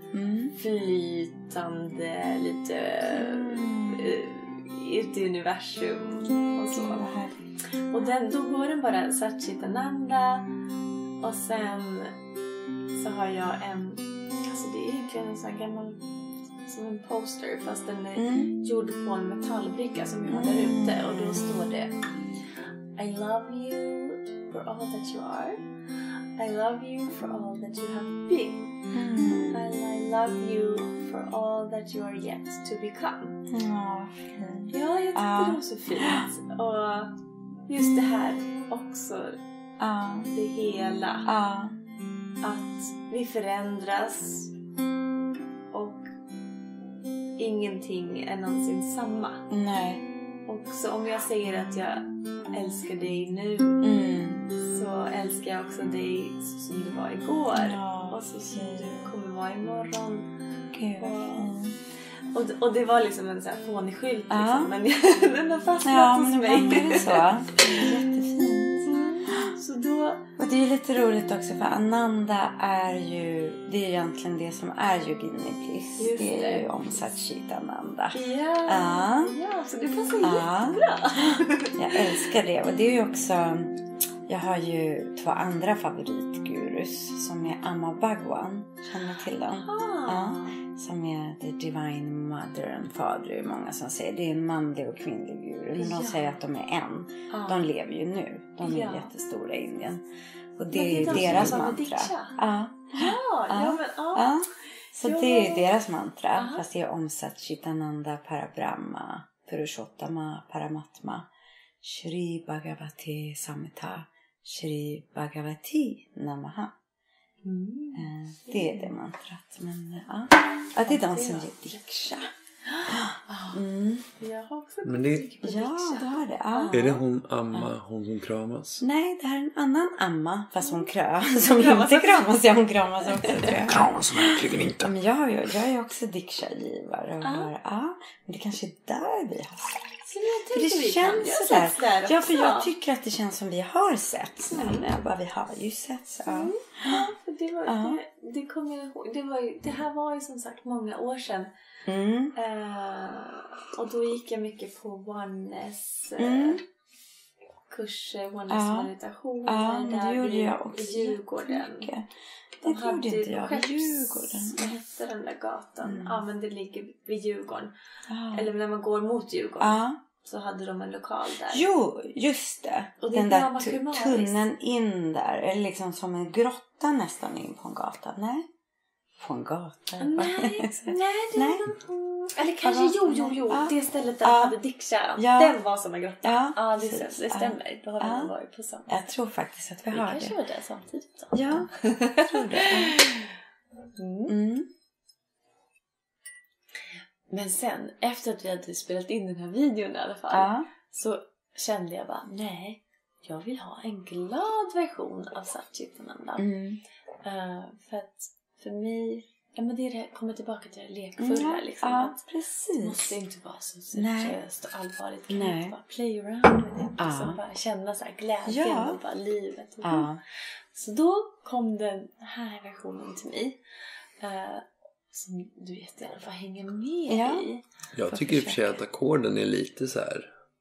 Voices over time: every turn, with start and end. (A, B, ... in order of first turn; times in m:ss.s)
0:00.1-0:00.6 A
0:00.5-0:07.2 B
0:03.1-0:04.2 A
0:06.7-0:07.5 A
0:07.9-0:10.5 B
0:08.0-0:08.2 A
0:11.2-0:12.2 B
0:13.0-0:16.0 B
0:16.7-0:22.0 B
0:18.2-0:18.5 A
0:20.3-0:21.2 A
0:23.0-0:25.6 B
0:26.4-0:28.7 B
0:28.9-0:29.7 A
0:29.5-0:33.4 B
0:33.5-0:36.3 A
0:34.7-0:37.1 B
0:37.7-0:39.4 B
0:39.8-0:40.3 A
0:40.3-0:41.3 B
0:41.3-0:41.8 A
0:42.4-0:44.5 B
0:45.7-0:46.1 B
0:47.4-0:49.5 B
0:49.5-0:50.0 A
0:50.5-0:53.9 B
0:53.8-0:54.5 A
0:54.6-1:00.3 B
0:57.5-0:59.1 A
1:00.7-1:01.8 A
1:01.0-1:01.5 B
1:02.3-1:08.1 B
1:04.3-1:04.8 A
1:05.8-1:09.5 A
1:08.9-1:10.4 B
1:10.4-1:19.4 A
1:16.0-1:16.9 B
1:18.1-1:22.3 B
1:20.2-1:40.0 A
1:29.6-1:30.6 B
1:35.8-1:36.4 B
1:37.3-1:37.7 B
1:38.6-1:39.1 B
1:40.6-1:51.3 A
1:40.7-1:42.4 B
1:40.9-1:41.5 C
1:42.9-1:44.4 B
1:45.0-1:45.7 B
1:46.3-1:46.7 B
1:51.8-1:56.8 A
1:57.4-1:58.9 B
1:57.9-2:02.3 A
2:00.8-2:01.8 B
2:02.7-2:03.6 B
2:02.9-2:04.1 A
2:04.2-2:07.0 B
2:04.8-2:05.4 C
2:05.4-2:07.0 A
2:06.7-2:08.8 C
2:08.8-2:27.1 A
2:11.3-2:12.5 B
2:13.0-2:13.6 B
2:13.7-2:14.9 C
2:17.2-2:17.5 B
2:20.1-2:22.7 B
2:24.5-2:24.9 B
2:26.3-2:31.5 B
2:27.6-2:28.0 A
2:31.9-2:32.4 A
2:32.4-2:36.6 B
2:36.2-2:36.6 A
2:37.7-2:41.9 B
2:38.5-2:38.9 A
2:39.5-2:44.7 A
2:42.6-2:47.8 B
2:45.8-2:46.2 A
2:48.1-2:48.5 A
2:48.3-2:51.7 B
2:49.6-2:50.0 A
2:51.5-2:58.5 A
2:53.0-2:54.4 B
2:59.2-3:01.6 A
3:00.0-3:09.0 B
3:02.6-3:04.6 A
3:05.2-3:05.6 A
3:06.2-3:08.3 A
3:08.9-3:10.4 A
3:09.9-3:13.4 B
3:11.3-3:13.0 A
3:14.0-3:14.4 B
3:14.3-3:14.7 A
3:17.3-3:26.5 B
3:20.3-3:20.7 A
3:26.4-3:26.8 A
3:27.2-3:32.2 B
3:31.2-3:33.2 A
3:32.8-3:43.6 B
3:33.9-3:34.4 A
3:35.3-3:35.8 A
3:37.0-3:37.4 A
3:38.5-3:39.0 A
3:39.8-3:40.2 A
3:44.2-3:47.6 B
3:47.1-3:47.5 A
3:47.9-3:50.3 C
3:48.1-3:48.8 A